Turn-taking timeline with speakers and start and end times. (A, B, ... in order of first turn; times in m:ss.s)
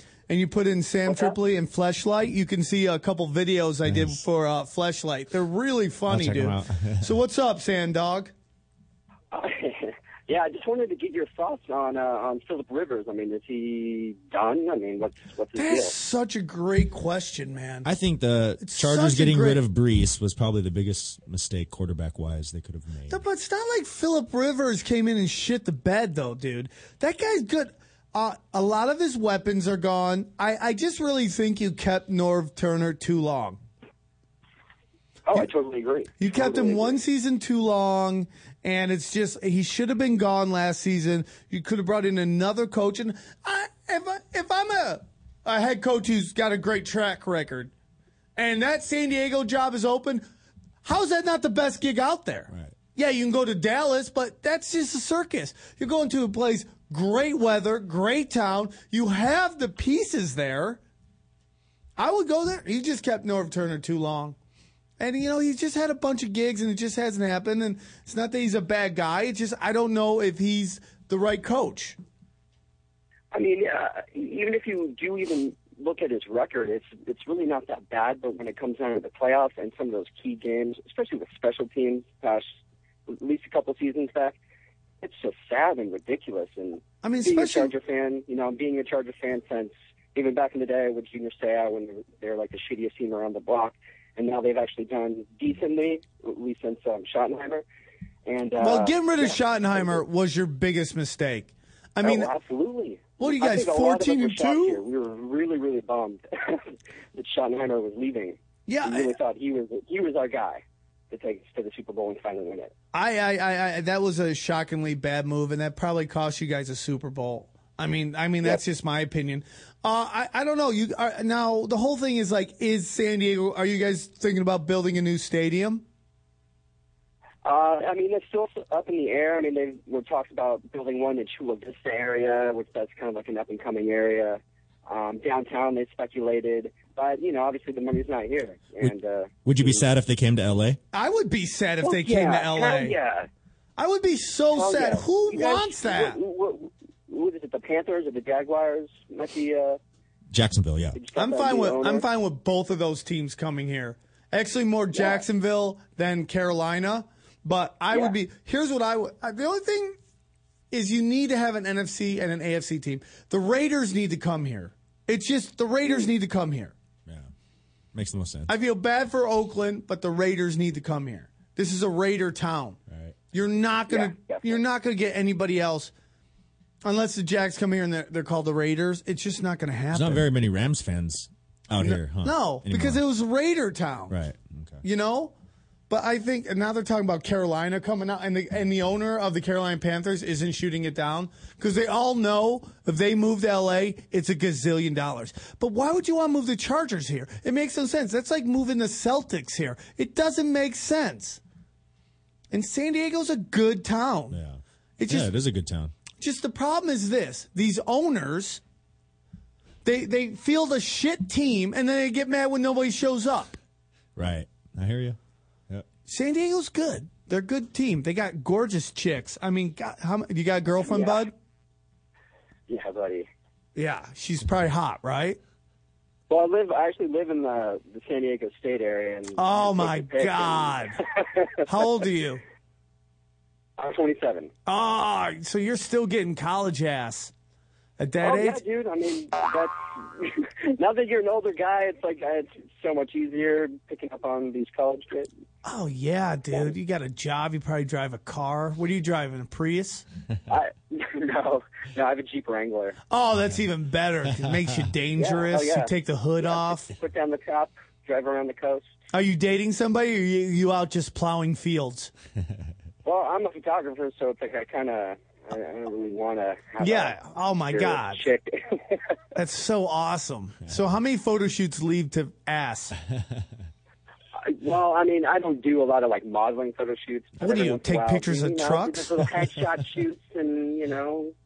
0:00.3-0:08.3 A
0:01.0-0:01.3 B
0:03.8-0:04.2 C
0:06.1-0:07.1 C
0:09.3-0:15.9 B
0:15.5-0:17.9 A
0:17.8-0:23.2 C
0:18.6-0:19.6 A
0:23.1-0:33.6 A
0:35.2-0:37.0 B
0:36.2-0:47.7 A
0:48.4-0:50.2 A
0:50.8-1:00.8 A
1:02.0-1:04.4 A
1:05.0-1:12.0 A
1:13.3-1:22.5 B
1:23.1-1:24.4 B
1:25.0-1:37.6 B
1:27.0-1:27.7 A
1:38.2-1:40.0 B
1:38.6-1:42.3 A
1:42.0-1:52.7 B
1:43.2-1:44.8 A
1:48.7-1:49.2 A
1:52.9-2:05.8 A
2:07.4-2:19.8 B
2:19.4-2:20.8 C
2:20.9-2:23.0 A
2:21.8-2:23.3 B
2:23.8-2:26.2 A
2:24.5-2:29.8 B
2:30.3-2:31.0 C
2:30.9-2:32.0 B
2:31.1-2:40.0 A
2:34.9-2:35.2 B
2:40.7-2:46.7 A
2:47.9-2:48.5 C
2:48.5-2:52.8 A
2:52.9-2:53.2 C
2:53.3-2:55.9 A
2:53.9-2:54.6 B
2:56.8-3:00.3 A
2:59.9-3:03.0 C
3:01.8-3:04.2 A
3:04.1-3:04.8 C
3:04.8-3:05.3 A
3:05.9-3:21.4 A
3:22.5-3:24.4 A
3:24.3-3:25.9 C
3:25.0-3:25.3 A
3:26.2-3:28.6 A
3:29.8-3:33.5 A
3:34.2-3:35.2 C
3:36.1-3:41.3 A
3:40.8-3:41.2 B
3:42.7-3:43.3 B
3:43.8-3:45.4 A
3:46.3-3:51.7 B
3:49.4-3:51.0 A
3:51.6-3:52.4 A
3:53.8-3:54.5 B
3:54.6-3:57.3 A
3:58.0-3:58.6 A
3:58.2-4:05.3 B
4:05.6-4:10.0 A
4:10.5-4:13.0 B
4:13.1-4:16.9 A
4:15.1-4:18.9 B
4:19.1-4:22.1 A
4:23.0-4:29.0 B
4:26.8-4:28.2 A
4:29.3-4:33.0 A
4:34.4-4:41.3 B
4:37.4-4:39.3 A